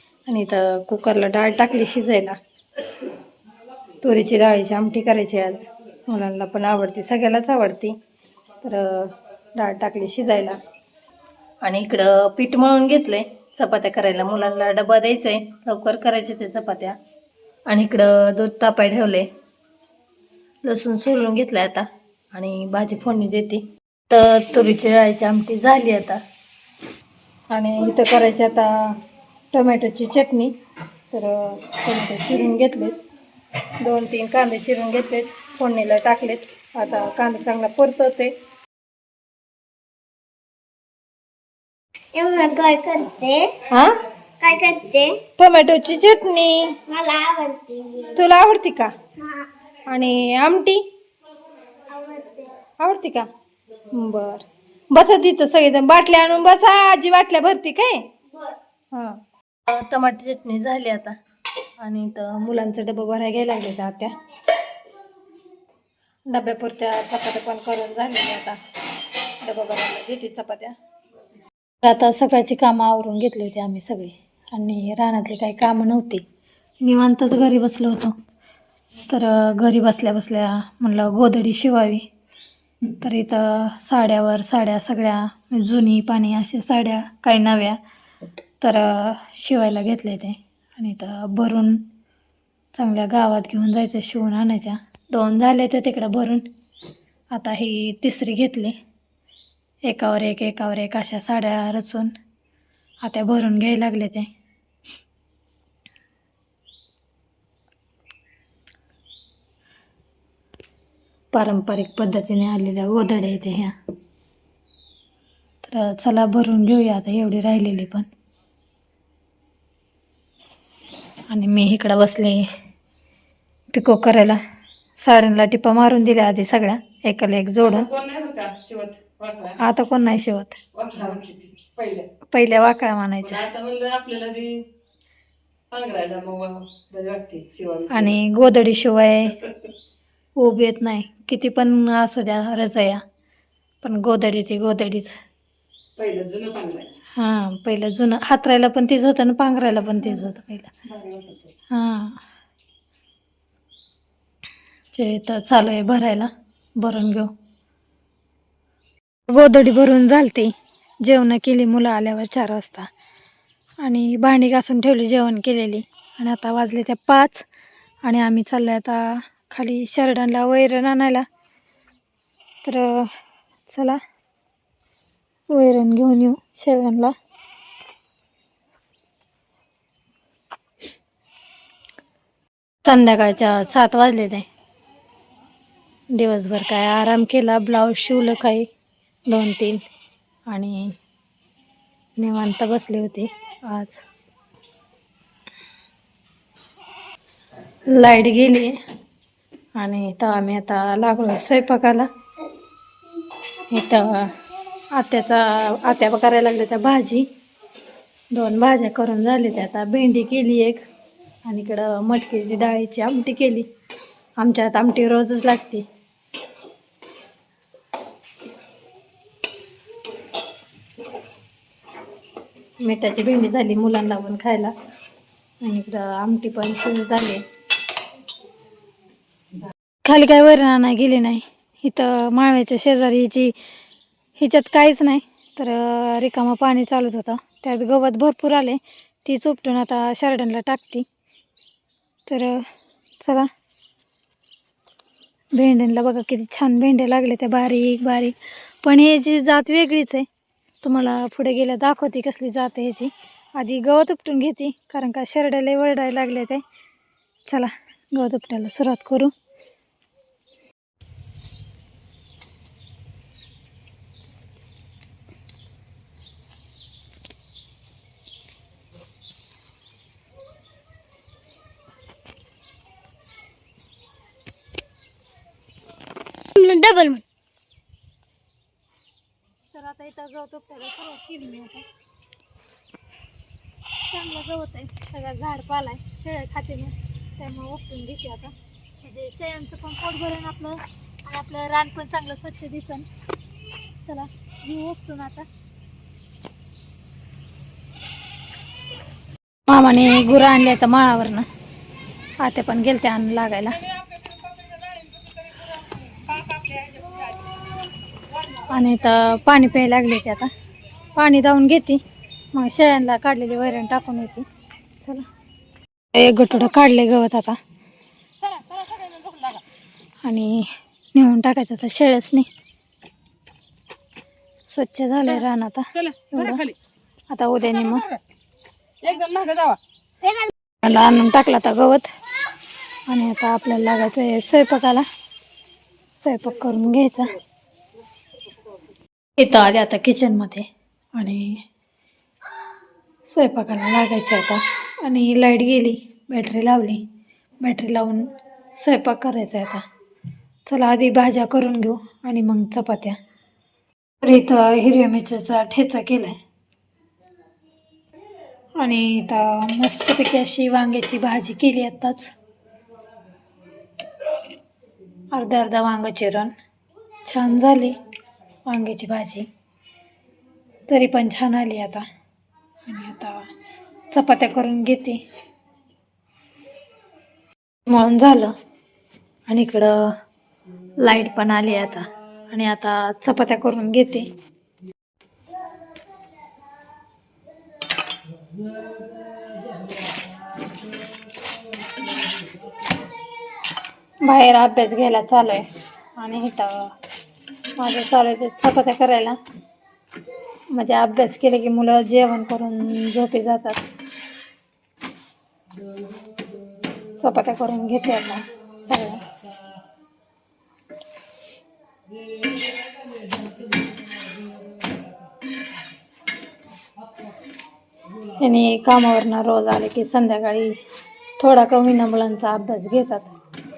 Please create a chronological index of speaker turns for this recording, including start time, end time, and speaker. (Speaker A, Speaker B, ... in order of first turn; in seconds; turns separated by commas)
Speaker A: 0.3-2.4, Speaker A: 4.0-8.0, Speaker A: 8.6-10.6, Speaker A: 11.6-17.0, Speaker A: 17.7-19.3, Speaker A: 20.6-26.2, Speaker A: 27.5-29.0, Speaker A: 29.5-30.5, Speaker A: 31.1-33.0, Speaker A: 33.8-38.3, Speaker B: 42.1-43.6, Speaker A: 43.7-44.0, Speaker B: 44.4-45.2, Speaker A: 45.4-46.8, Speaker B: 46.9-48.1, Speaker A: 48.1-48.9, Speaker A: 49.9-50.8, Speaker B: 51.9-52.5, Speaker A: 52.8-53.3, Speaker A: 53.9-58.0, Speaker A: 58.9-61.2, Speaker A: 61.8-64.1, Speaker A: 66.3-68.6, Speaker A: 69.4-70.8, Speaker A: 71.8-76.2, Speaker A: 76.8-78.2, Speaker A: 79.1-82.0, Speaker A: 83.0-87.8, Speaker A: 88.6-91.8, Speaker A: 92.7-96.5, Speaker A: 97.3-98.8, Speaker A: 99.8-102.1, Speaker A: 103.0-104.3, Speaker A: 111.3-113.7, Speaker A: 115.6-118.1, Speaker A: 121.3-122.4, Speaker A: 123.7-124.4, Speaker A: 125.0-127.9, Speaker C: 127.7-129.6, Speaker A: 129.6-130.6, Speaker C: 130.8-132.1, Speaker A: 132.3-133.5, Speaker C: 133.4-134.7, Speaker C: 135.7-138.1, Speaker A: 137.9-139.4, Speaker A: 140.4-143.0, Speaker A: 143.8-145.1, Speaker C: 146.0-147.0, Speaker A: 147.1-150.7, Speaker C: 150.9-151.5, Speaker A: 151.7-152.2, Speaker A: 154.9-157.3, Speaker A: 159.3-160.5, Speaker A: 161.1-162.9, Speaker A: 163.8-167.4, Speaker A: 168.1-171.2, Speaker A: 172.6-173.2, Speaker A: 173.7-174.0, Speaker A: 175.5-177.2, Speaker A: 182.8-184.5, Speaker A: 186.1-188.7, Speaker A: 189.3-189.8, Speaker A: 190.5-190.9, Speaker A: 192.2-194.0, Speaker A: 197.9-198.8, Speaker A: 199.8-202.1, Speaker A: 203.7-204.3, Speaker A: 204.9-207.3, Speaker A: 208.3-210.8, Speaker A: 211.4-213.7, Speaker A: 214.4-215.9, Speaker A: 222.8-224.7, Speaker A: 225.6-227.4, Speaker A: 230.0-233.5, Speaker A: 234.4-241.1, Speaker A: 242.3-242.7, Speaker A: 243.2-243.5, Speaker A: 245.5-250.3, Speaker A: 250.8-256.6, Speaker A: 257.5-259.3, Speaker B: 276.6-277.2, Speaker A: 279.7-281.8, Speaker A: 284.1-293.1, Speaker A: 294.0-295.5, Speaker A: 299.7-301.5, Speaker A: 302.4-303.8, Speaker A: 308.6-310.5, Speaker A: 311.1-312.0, Speaker A: 312.5-314.4, Speaker A: 316.1-317.6, Speaker A: 320.2-322.5, Speaker A: 324.7-326.7, Speaker A: 327.3-328.1, Speaker C: 329.0-329.8, Speaker A: 330.8-332.1, Speaker A: 333.1-335.1, Speaker A: 336.2-337.3, Speaker A: 339.4-341.6, Speaker A: 343.3-347.0, Speaker A: 347.6-348.3, Speaker A: 348.8-349.8, Speaker A: 350.6-353.2, Speaker A: 354.2-356.4, Speaker A: 358.8-362.3, Speaker A: 365.3-366.5, Speaker A: 367.2-368.0, Speaker A: 368.7-369.5, Speaker A: 370.9-372.1, Speaker A: 372.9-373.5, Speaker A: 374.1-375.2, Speaker A: 377.9-378.5, Speaker A: 379.5-380.1, Speaker A: 381.0-384.3, Speaker A: 394.2-396.9, Speaker A: 397.8-399.4, Speaker A: 400.7-403.8, Speaker A: 407.1-409.2, Speaker A: 418.4-420.8, Speaker A: 421.4-423.3